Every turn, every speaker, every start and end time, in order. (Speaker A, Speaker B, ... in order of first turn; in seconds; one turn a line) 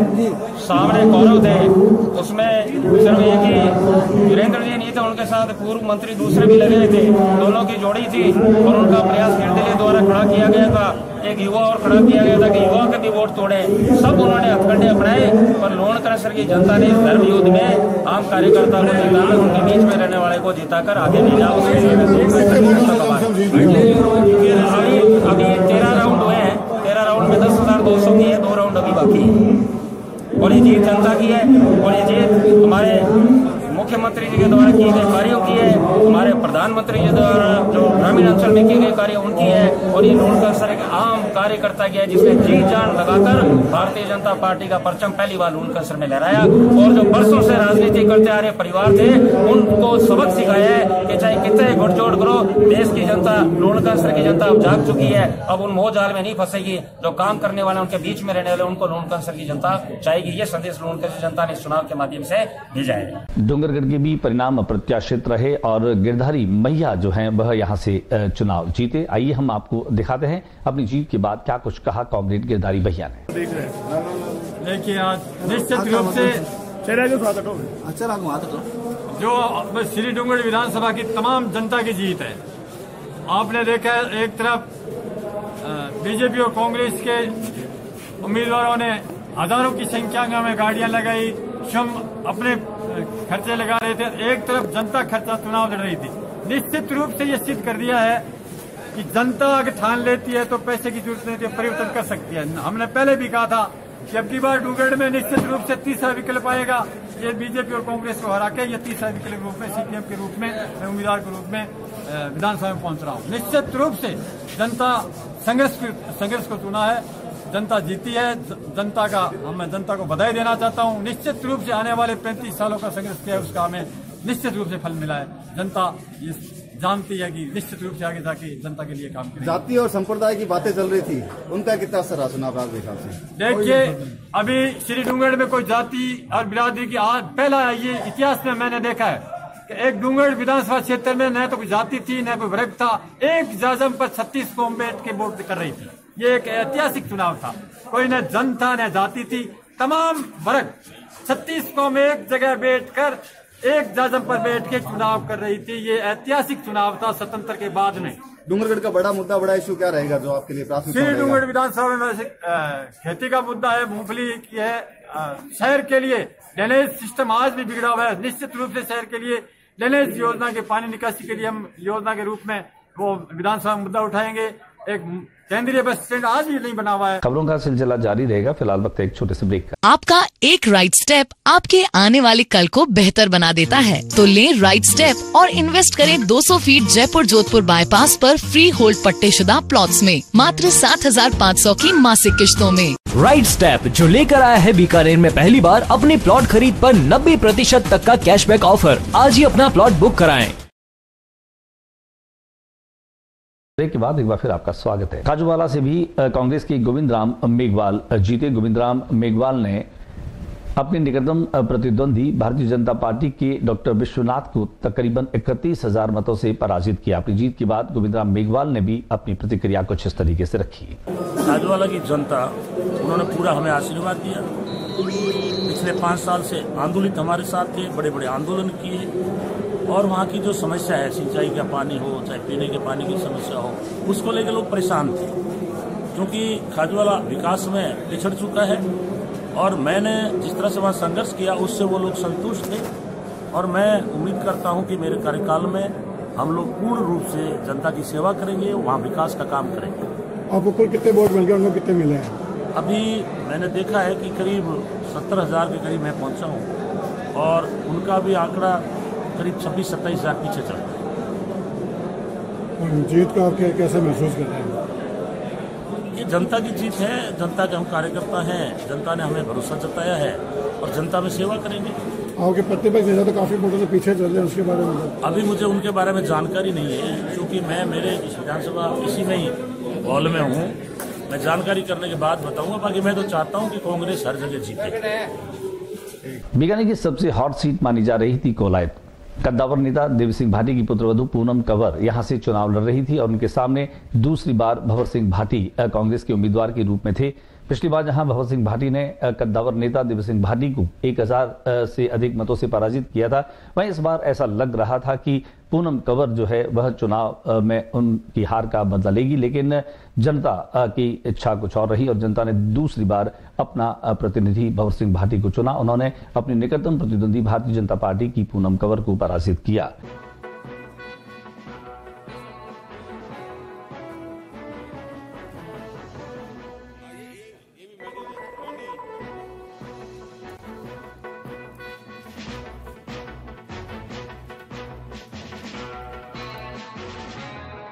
Speaker A: 0.5-29.4
Speaker A: 30.4-33.1
Speaker A: 33.6-63.2
Speaker B: 63.4-73.2
Speaker C: 74.6-76.4
Speaker D: 76.9-77.7
Speaker C: 79.2-82.4
Speaker C: 83.3-84.7
Speaker C: 85.6-87.4
Speaker C: 88.2-98.2
Speaker C: 98.9-129.6
Speaker E: 129.4-133.2
Speaker C: 133.4-158.2
Speaker E: 158.5-161.4
Speaker C: 160.9-177.2
Speaker B: 177.2-179.8
Speaker F: 179.8-193.0
Speaker G: 193.1-200.6
Speaker B: 203.8-209.9
Speaker B: 210.8-221.0
Speaker H: 221.4-224.5
Speaker H: 225.6-229.1
Speaker H: 229.9-235.2
Speaker H: 236.1-238.9
Speaker H: 239.5-242.9
Speaker H: 243.5-250.0
Speaker D: 250.5-252.4
Speaker H: 252.7-256.7
Speaker H: 257.3-261.0
Speaker D: 262.8-264.8
Speaker H: 266.1-272.0
Speaker D: 272.4-275.1
Speaker H: 275.2-285.0
Speaker B: 286.5-319.9